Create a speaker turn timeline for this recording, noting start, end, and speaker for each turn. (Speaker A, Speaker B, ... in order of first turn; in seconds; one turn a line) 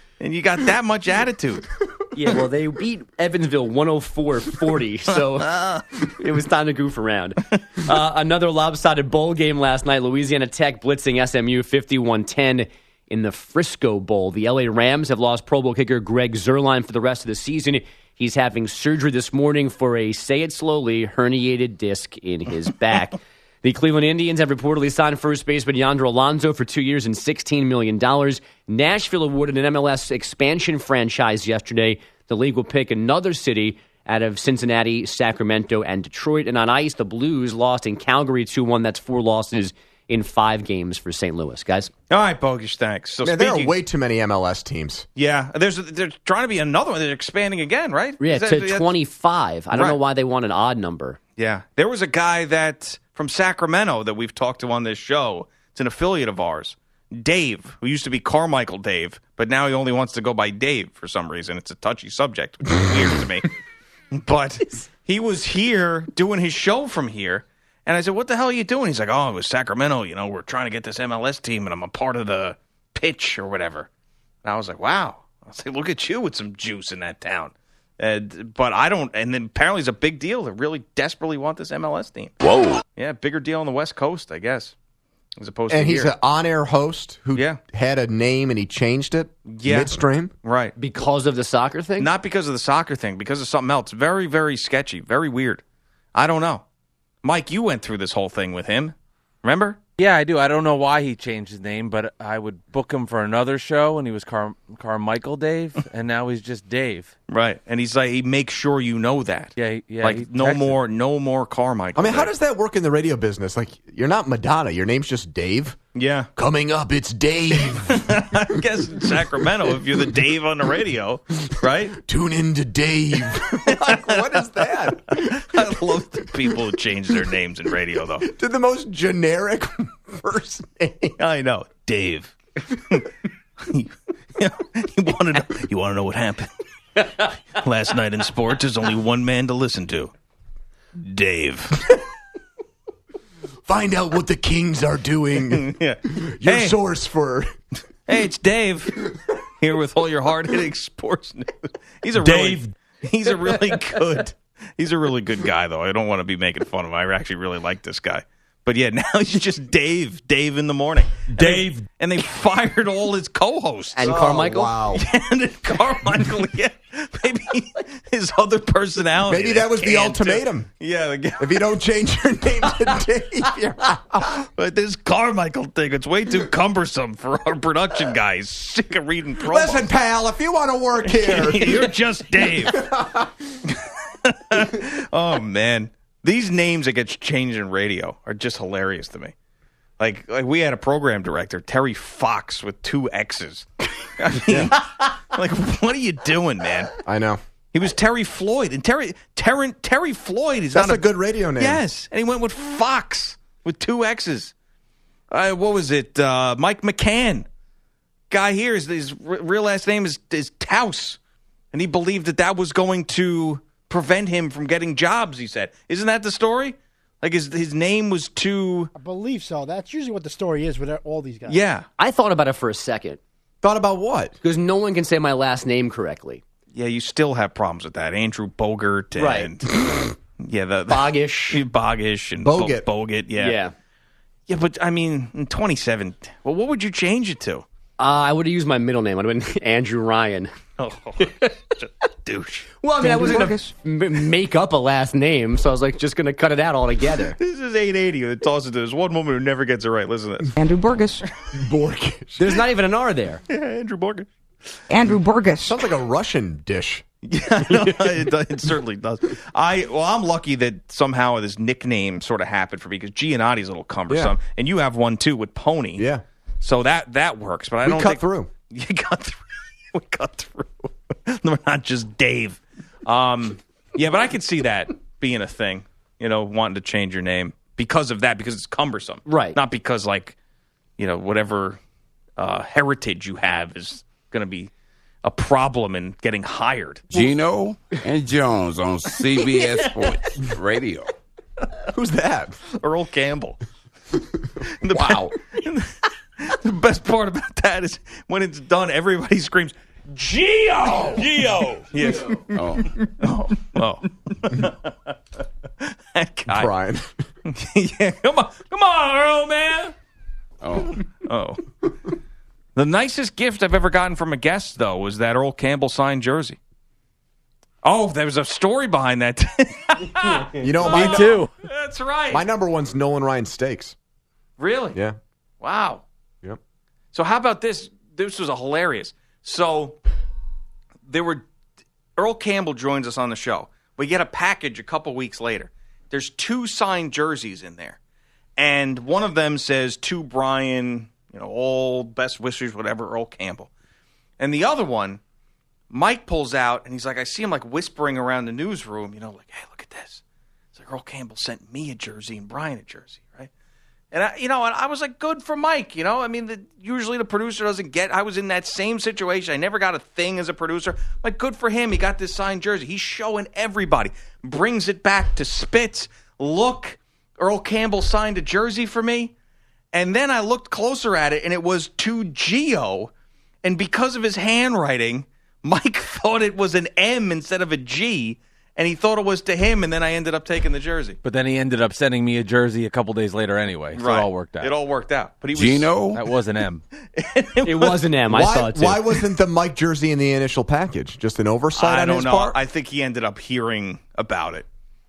Speaker A: 0.2-1.7
Speaker B: 2.1-41.9
Speaker A: 5.4-5.8
Speaker A: 42.1-43.8
Speaker C: 43.2-45.1
Speaker A: 45.2-48.9
Speaker B: 48.2-51.2
Speaker A: 49.7-50.0
Speaker A: 51.4-63.5
Speaker A: 64.2-73.9
Speaker A: 74.4-82.3
Speaker A: 83.0-84.7
Speaker A: 85.4-86.1
Speaker C: 85.7-90.3
Speaker A: 87.3-87.6
Speaker A: 89.5-90.7
Speaker B: 90.8-92.1
Speaker A: 92.0-95.6
Speaker A: 96.2-96.6
Speaker A: 97.2-99.8
Speaker D: 100.0-107.1
Speaker A: 107.3-112.3
Speaker D: 109.6-110.8
Speaker C: 112.0-115.8
Speaker A: 116.0-116.3
Speaker C: 116.4-118.6
Speaker A: 117.7-122.0
Speaker C: 121.9-125.7
Speaker A: 123.5-128.3
Speaker C: 128.2-131.2
Speaker A: 131.2-132.3
Speaker A: 133.6-136.5
Speaker A: 137.5-140.1
Speaker A: 141.0-141.8
Speaker C: 143.7-147.5
Speaker A: 145.5-146.8
Speaker A: 148.1-171.6
Speaker B: 163.9-164.8
Speaker C: 164.0-165.0
Speaker C: 169.3-170.7
Speaker C: 171.4-174.3
Speaker A: 174.4-179.9
Speaker C: 179.4-181.9
Speaker A: 181.1-182.9
Speaker C: 182.4-183.3
Speaker A: 183.7-189.3
Speaker A: 190.0-196.9
Speaker C: 194.5-194.7
Speaker C: 197.1-197.4
Speaker A: 197.7-204.5
Speaker C: 200.7-201.8
Speaker A: 205.3-207.5
Speaker A: 208.3-211.2
Speaker A: 211.7-218.9
Speaker E: 219.0-221.6
Speaker A: 221.5-221.9
Speaker B: 222.0-223.2
Speaker C: 223.6-224.4
Speaker B: 224.4-226.4
Speaker A: 226.7-229.7
Speaker B: 229.2-229.5
Speaker A: 230.4-233.6
Speaker B: 230.9-231.6
Speaker C: 232.4-232.8
Speaker B: 233.4-233.7
Speaker A: 234.5-237.7
Speaker B: 238.0-240.5
Speaker A: 240.8-242.7
Speaker B: 242.8-247.4
Speaker F: 243.0-243.7
Speaker A: 247.4-250.5
Speaker F: 250.6-251.2
Speaker C: 251.5-252.5
Speaker B: 252.4-253.4
Speaker A: 253.5-254.3
Speaker F: 254.9-255.8
Speaker C: 255.6-257.0
Speaker A: 257.2-266.1
Speaker B: 257.7-258.1
Speaker C: 264.1-264.4
Speaker C: 266.0-266.2
Speaker A: 266.6-280.4
Speaker C: 267.8-268.5
Speaker B: 279.3-279.6
Speaker A: 281.0-281.8
Speaker A: 282.4-284.7
Speaker A: 285.2-287.0
Speaker G: 287.1-291.1
Speaker C: 291.9-292.6
Speaker A: 292.7-293.6
Speaker A: 294.7-302.5
Speaker C: 294.9-295.3
Speaker G: 302.5-302.9
Speaker A: 303.2-305.1
Speaker A: 305.8-306.7
Speaker C: 306.5-307.1
Speaker A: 307.5-309.9
Speaker G: 310.6-311.0
Speaker A: 311.2-311.6
Speaker A: 312.8-316.6
Speaker A: 317.8-322.5
Speaker C: 320.6-321.4
Speaker D: 320.8-321.5
Speaker C: 322.3-323.9
Speaker A: 324.6-325.0
Speaker A: 325.6-326.0
Speaker A: 327.1-330.0
Speaker A: 331.1-331.5
Speaker A: 332.2-338.0
Speaker A: 338.6-343.7
Speaker A: 344.4-345.2
Speaker A: 345.9-350.2
Speaker A: 350.8-353.5
Speaker A: 354.1-369.3
Speaker A: 369.9-373.1
Speaker A: 373.6-381.2
Speaker D: 381.2-384.7
Speaker A: 383.9-385.9
Speaker G: 385.5-386.2
Speaker D: 386.1-386.8
Speaker A: 387.2-388.0
Speaker B: 387.6-389.1
Speaker C: 388.3-392.6
Speaker A: 391.8-394.7